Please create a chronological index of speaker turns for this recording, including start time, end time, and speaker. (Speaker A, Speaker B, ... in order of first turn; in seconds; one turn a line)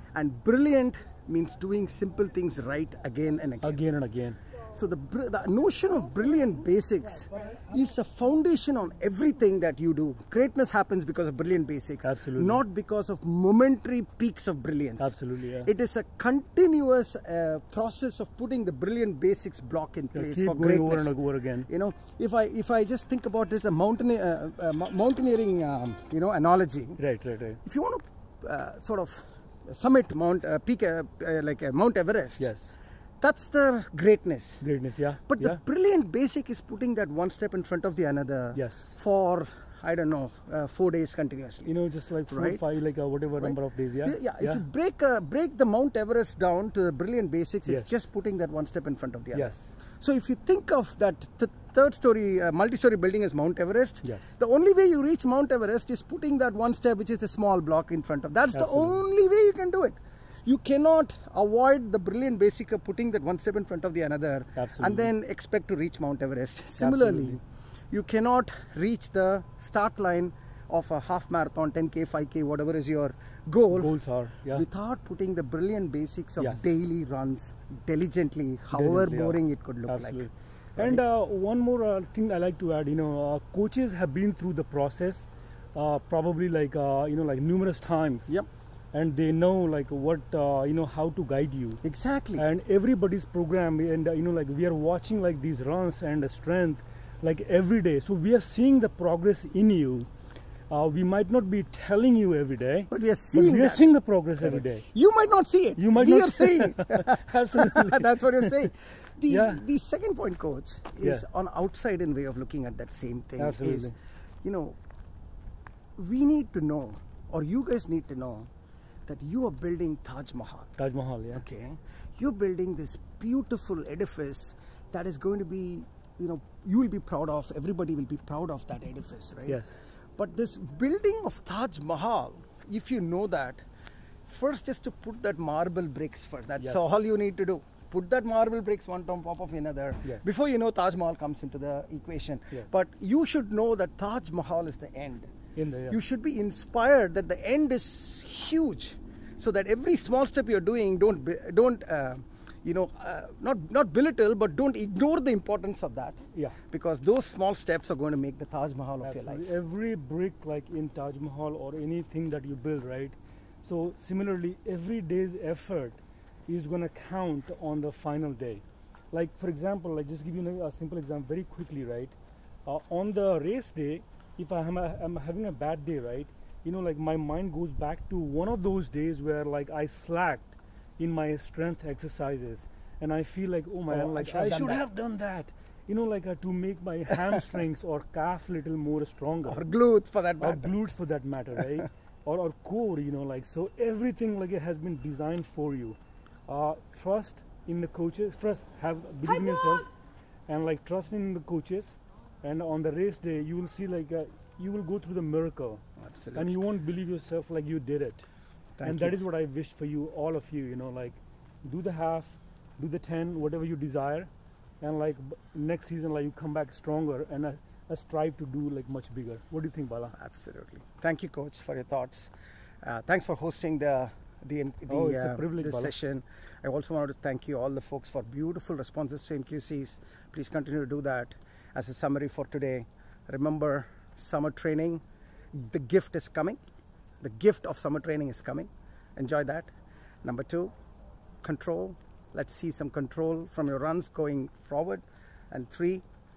Speaker A: 0.1-3.8
Speaker B: 3.6-4.4
Speaker A: 4.7-21.1
Speaker B: 12.0-12.6
Speaker B: 15.0-15.7
Speaker B: 20.1-21.7
Speaker A: 21.7-27.0
Speaker B: 27.0-27.6
Speaker A: 27.6-32.5
Speaker B: 32.4-32.8
Speaker A: 33.2-34.6
Speaker B: 34.6-35.6
Speaker A: 35.3-41.7
Speaker B: 38.5-38.9
Speaker B: 41.6-44.6
Speaker A: 42.3-42.6
Speaker A: 43.4-74.0
Speaker B: 47.7-48.1
Speaker B: 49.3-49.7
Speaker B: 54.0-54.3
Speaker B: 58.5-59.0
Speaker B: 64.6-65.1
Speaker B: 66.8-67.4
Speaker B: 73.7-74.7
Speaker A: 74.5-81.0
Speaker B: 76.4-76.7
Speaker B: 78.7-88.3
Speaker B: 88.9-91.8
Speaker A: 91.8-92.5
Speaker B: 92.4-100.1
Speaker B: 100.7-104.9
Speaker A: 102.9-114.8
Speaker B: 105.8-108.7
Speaker B: 109.3-109.6
Speaker B: 113.4-113.9
Speaker A: 116.0-118.5
Speaker A: 119.1-120.7
Speaker B: 120.8-121.4
Speaker A: 121.3-129.6
Speaker B: 129.5-129.8
Speaker A: 130.2-133.6
Speaker A: 134.3-145.3
Speaker B: 140.0-140.3
Speaker B: 145.6-146.0
Speaker A: 145.9-156.2
Speaker A: 156.7-159.5
Speaker B: 159.0-172.1
Speaker B: 172.7-189.7
Speaker A: 183.9-184.8
Speaker A: 189.5-190.8
Speaker B: 190.4-199.9
Speaker B: 200.5-205.8
Speaker A: 206.0-206.6
Speaker B: 206.3-208.3
Speaker A: 208.8-209.2
Speaker B: 208.8-214.3
Speaker B: 214.8-220.2
Speaker A: 220.2-222.3
Speaker A: 222.8-235.0
Speaker B: 224.9-225.9
Speaker A: 235.5-236.6
Speaker A: 237.2-239.7
Speaker A: 240.2-240.7
Speaker A: 241.4-246.0